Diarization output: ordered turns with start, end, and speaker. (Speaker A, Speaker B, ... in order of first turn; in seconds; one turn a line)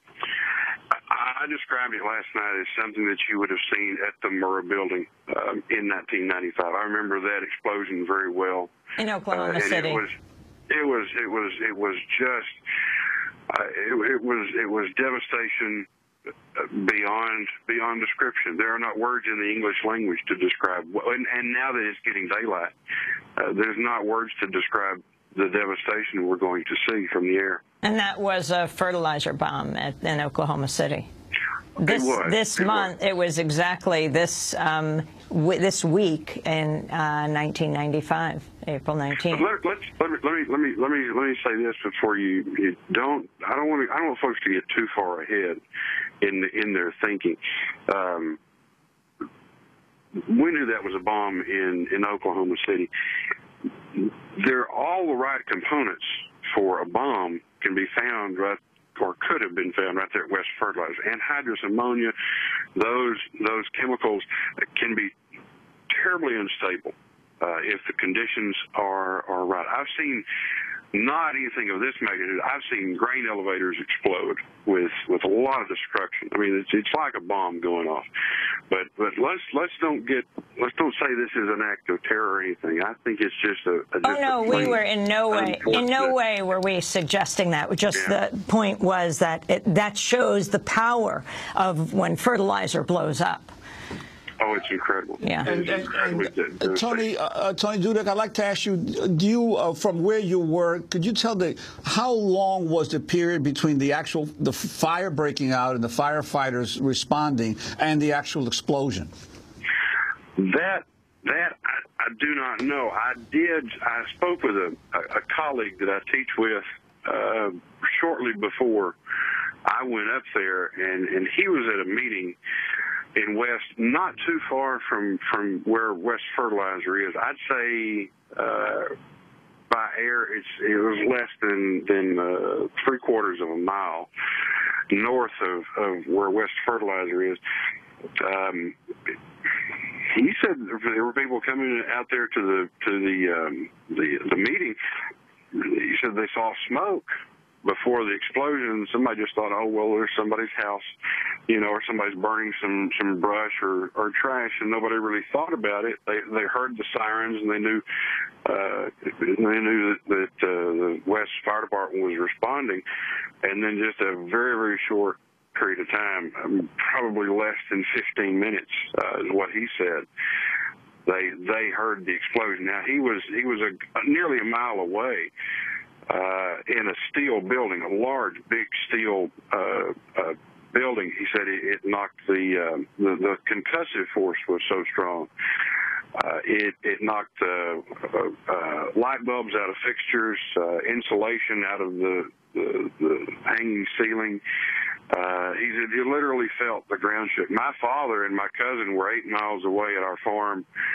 Speaker A: 1.1-8.7
Speaker B: 9.0-10.0
Speaker A: 9.3-10.1
Speaker A: 10.7-12.6
Speaker A: 13.5-15.9
Speaker A: 16.5-22.7
Speaker A: 23.4-27.6
Speaker B: 27.8-31.1
Speaker B: 31.8-39.5
Speaker A: 31.8-32.9
Speaker A: 39.3-45.6
Speaker A: 46.2-48.4
Speaker A: 50.2-52.9
Speaker A: 53.9-62.1
Speaker A: 62.7-65.1
Speaker A: 65.9-70.2
Speaker A: 70.9-78.1
Speaker A: 78.7-86.1
Speaker B: 84.0-93.5
Speaker A: 94.4-97.0
Speaker B: 95.2-95.5
Speaker C: 95.4-109.1
Speaker A: 110.4-119.0
Speaker A: 119.7-122.4
Speaker A: 123.2-128.9
Speaker A: 129.7-134.1
Speaker A: 134.9-137.4
Speaker A: 138.2-138.8
Speaker A: 140.1-144.8
Speaker A: 145.5-147.1
Speaker A: 147.6-150.9
Speaker A: 151.5-157.8
Speaker A: 158.4-162.8
Speaker A: 163.4-170.1
Speaker A: 171.1-175.3
Speaker A: 176.1-185.3
Speaker A: 186.1-194.4
Speaker A: 195.1-200.7